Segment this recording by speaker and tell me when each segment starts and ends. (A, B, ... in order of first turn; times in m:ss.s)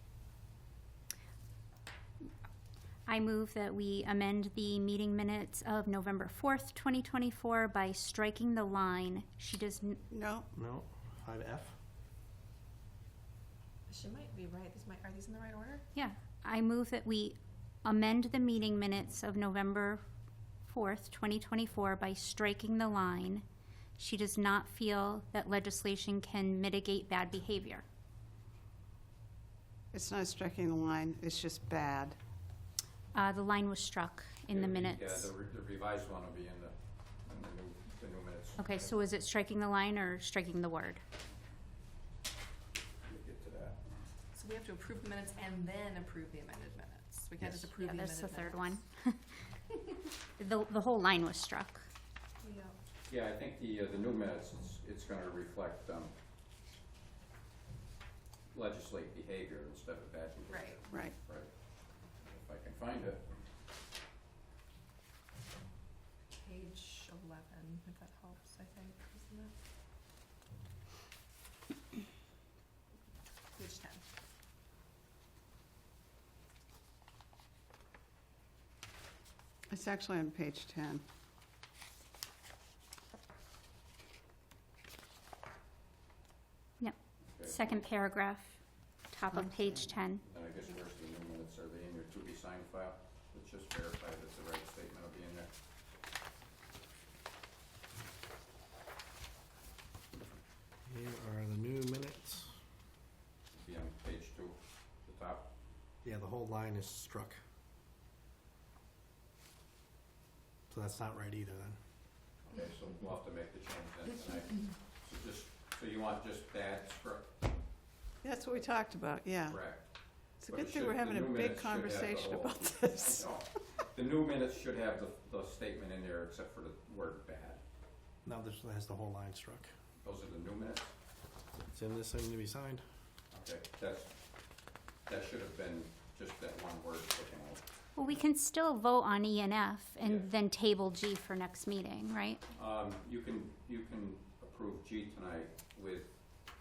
0:03.1-0:10.0 A
0:10.1-0:10.5 B
0:10.5-0:11.8 C
0:13.9-0:15.8 D
0:15.9-0:20.0 A
0:20.7-0:23.4 A
0:24.0-0:27.8 A
0:29.9-0:32.2 B
0:33.1-0:35.3 A
0:34.5-0:39.0 E
0:38.6-0:41.0 A
0:43.0-0:43.8 E
0:44.3-0:48.7 D
0:47.8-0:49.4 A
0:50.4-0:51.9 A
0:52.4-0:52.8 D
0:53.1-0:56.1 E
0:58.5-1:03.3 E
1:00.5-1:00.9 D
1:06.3-1:09.5 D
1:13.6-1:14.0 D
1:19.7-1:21.0 B
1:26.8-1:28.6 A
1:27.3-1:27.7 E
1:29.1-1:30.2 A
1:29.3-1:29.9 B
1:30.2-1:35.5 E
1:40.9-1:42.6 C
1:43.5-1:45.5 E
1:46.0-1:47.4 C
1:50.7-1:51.8 C
1:52.4-1:57.6 E
1:58.2-2:03.4 B
1:59.5-2:07.6 E
2:08.2-2:09.7 C
2:10.0-2:11.0 E
2:11.6-2:12.8 C
2:13.3-2:17.6 E
2:18.0-2:22.4 A
2:20.0-2:20.3 E
2:22.5-2:26.2 E